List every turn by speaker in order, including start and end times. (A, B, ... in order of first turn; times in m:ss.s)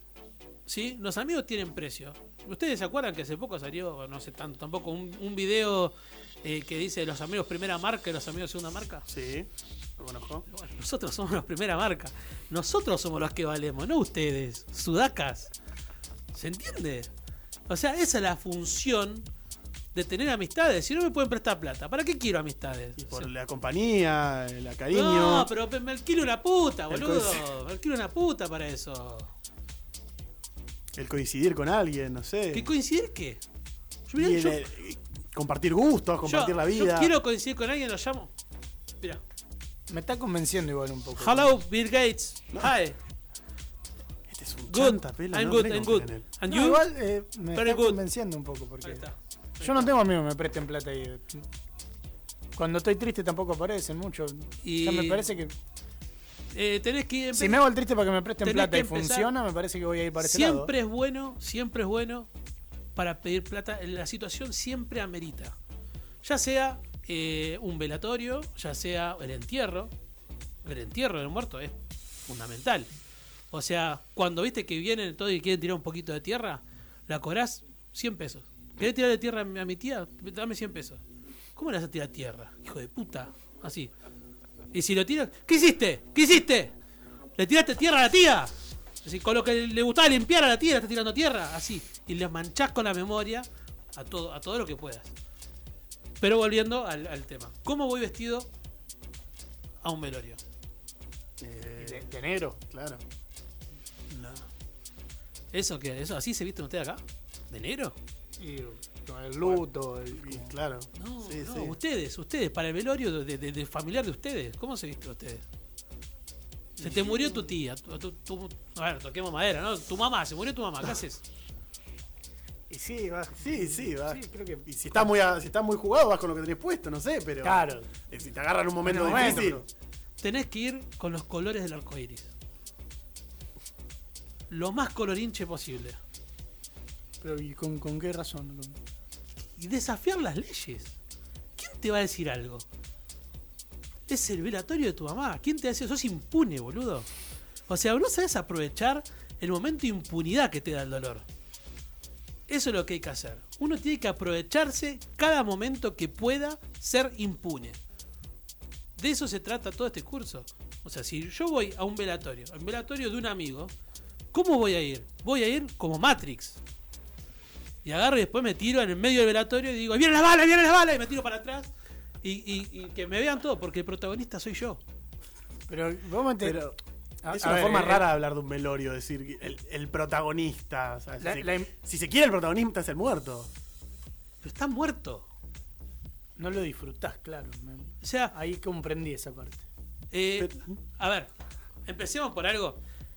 0:00.7-0:09.1 A
0:09.1-0:10.4 B
0:10.5-0:15.5 A
0:16.3-0:17.1 A
0:17.7-0:19.3 A
0:19.9-0:23.3 A
0:23.0-0:25.5 B
0:24.9-0:29.3 A
0:26.9-0:27.5 B
0:31.0-0:32.7 B
0:32.5-0:33.4 A
0:34.1-0:34.6 A
0:34.2-0:37.1 B
0:36.2-0:38.3 A
0:39.9-0:41.6 C
0:41.2-0:43.0 A
0:44.3-0:46.2 B
0:44.7-0:46.8 A
0:46.5-0:49.1 C
0:47.5-0:48.0 A
0:48.8-0:49.9 A
0:49.6-0:51.5 C
0:52.6-0:55.5 C
0:54.6-0:55.3 A
0:56.5-0:57.6 A
0:57.3-1:00.7 C
0:58.4-0:59.3 A
1:00.2-1:02.3 A
1:03.0-1:05.6 A
1:06.2-1:09.9 A
1:10.6-1:11.8 A
1:12.3-1:12.9 A
1:13.5-1:21.0 A
1:21.6-1:23.9 A
1:24.7-1:26.7 A
1:27.4-1:35.1 A
1:36.2-1:38.5 A
1:39.8-1:40.4 A
1:41.4-1:43.0 B
1:41.8-1:42.6 C
1:44.1-1:44.4 B
1:45.5-1:48.0 A
1:48.4-1:50.5 C
1:49.4-1:51.8 B
1:51.0-1:55.4 A
1:56.8-2:01.2 A
1:57.0-1:57.4 C
2:02.7-2:05.0 C
2:03.4-2:09.7 B
2:07.4-2:07.9 C
2:08.8-2:09.6 C
2:09.1-2:09.5 A
2:10.2-2:12.3 A
2:14.5-2:16.0 A
2:17.2-2:18.8 C
2:19.6-2:21.0 A
2:21.6-2:22.6 A
2:24.1-2:27.1 A
2:27.7-2:31.2 A
2:32.5-2:37.8 A
2:39.0-2:43.7 A
2:44.3-2:46.6 A
2:47.8-2:51.7 A
2:52.2-2:54.8 A
2:55.7-2:56.6 C
2:56.4-2:56.8 B
2:57.2-2:58.1 C
2:57.3-3:03.5 B
3:01.2-3:01.7 C
3:04.4-3:05.3 A
3:06.4-3:09.6 C
3:08.0-3:08.3 A
3:10.1-3:11.3 A
3:10.4-3:10.8 B
3:11.9-3:12.8 A